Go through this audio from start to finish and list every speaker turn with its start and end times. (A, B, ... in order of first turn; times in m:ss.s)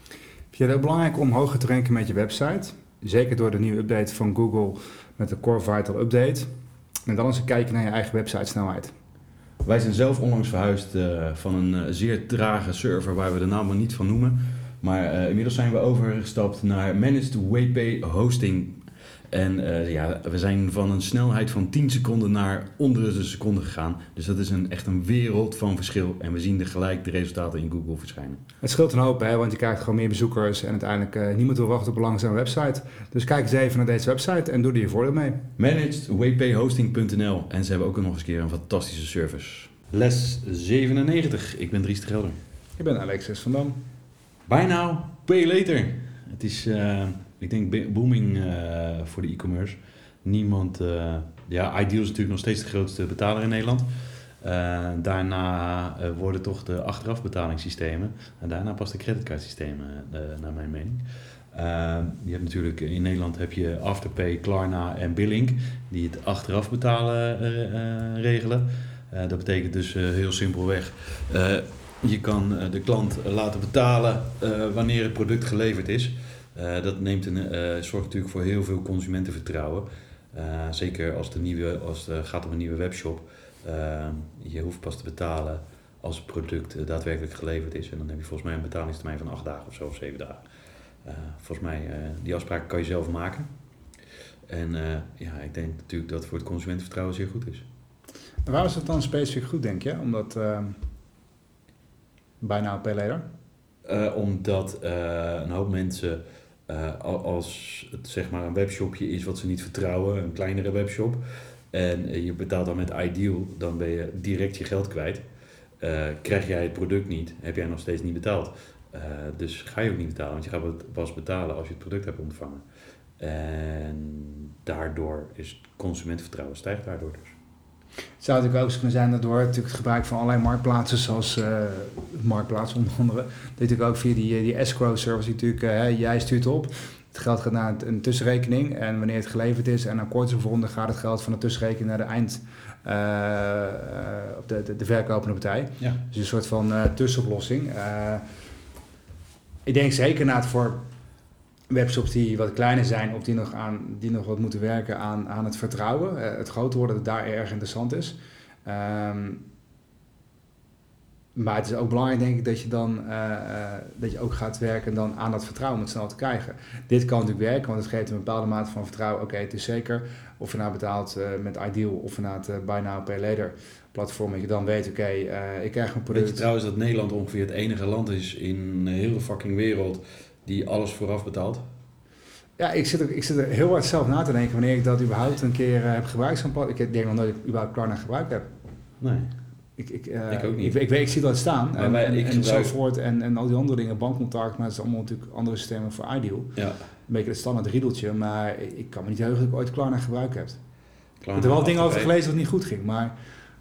0:00.5-0:06.5 A
0:07.0-0:08.9 A
0:09.6-0:28.4 B
0:28.6-0:35.4 A
0:35.6-0:42.4 B
0:42.8-0:43.8 A
0:44.5-0:53.9 B
0:54.4-1:30.4 B
1:31.0-1:33.5 B
1:34.5-1:37.6 B
1:38.4-1:40.8 A
1:42.4-1:43.2 A
1:43.8-1:55.2 B
1:55.8-2:02.6 B
2:03.2-2:07.3 B
2:08.2-2:28.2 A
2:29.6-2:30.8 A
2:31.7-2:39.4 A
2:41.3-2:56.4 A
2:56.1-3:01.6 B
3:02.6-3:08.5 A
3:09.0-3:09.3 B
3:09.8-3:16.5 A
3:10.3-3:10.8 B
3:11.7-3:12.7 B
3:17.1-3:20.6 A
3:21.2-3:22.1 B
3:21.3-3:23.1 A